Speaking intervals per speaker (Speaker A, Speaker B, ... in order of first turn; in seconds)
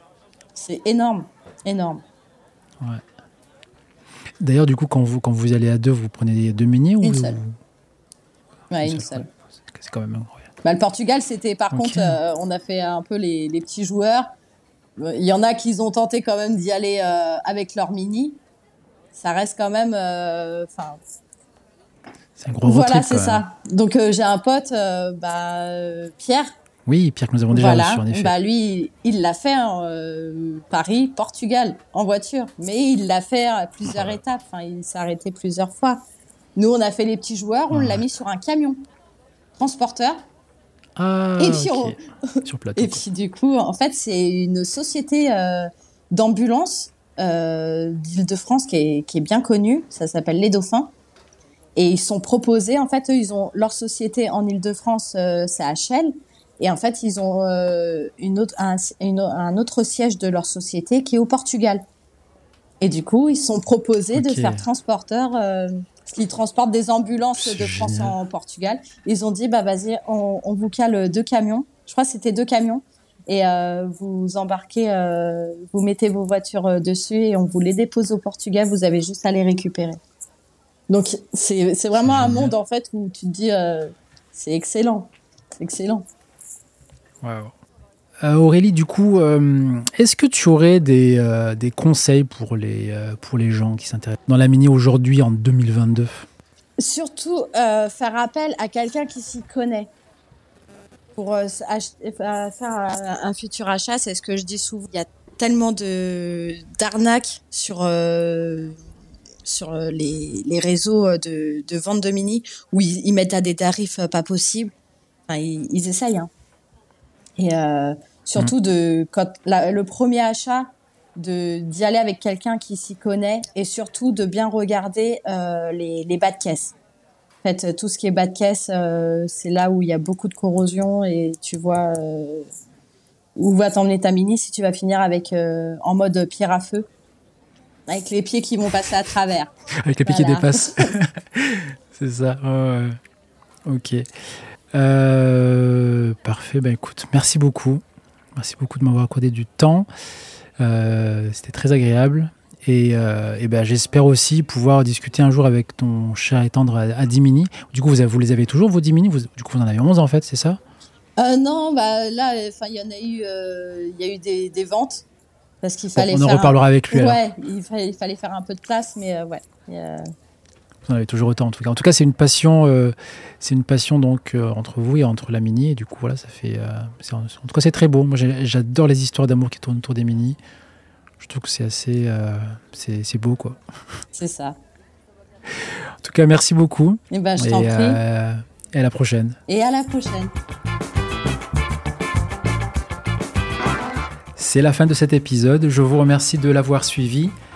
Speaker A: 0.5-2.0, 7.0-7.4, 8.7-9.3, 10.6-14.3, 15.0-18.4, 19.1-21.0, 22.6-26.5, 27.5-36.0, 36.5-38.8, 39.6-40.2, 41.4-50.9, 51.8-61.9, 62.8-80.0, 80.9-86.0, 96.8-99.9, 101.2-108.8, 109.4-114.7, 115.3-116.3, 117.4-126.7, 127.4-132.5, 133.3-136.9, 137.9-139.5, 140.0-140.9, 161.2-165.1, 165.6-170.1, 184.1-184.6, 187.1-188.0, 189.5-190.3
Speaker B: 4.4-7.5, 8.8-10.4, 11.7-12.2, 22.4-23.4, 26.9-28.3, 33.8-34.2, 37.7-38.0, 41.0-43.0, 64.1-64.7, 67.4-68.2, 82.0-82.5, 87.2-87.5, 88.2-96.3, 139.8-143.0, 143.7-147.8, 148.3-149.9, 150.6-160.6, 165.9-167.2, 170.8-180.4, 181.2-183.6, 185.5-189.4, 194.3-197.3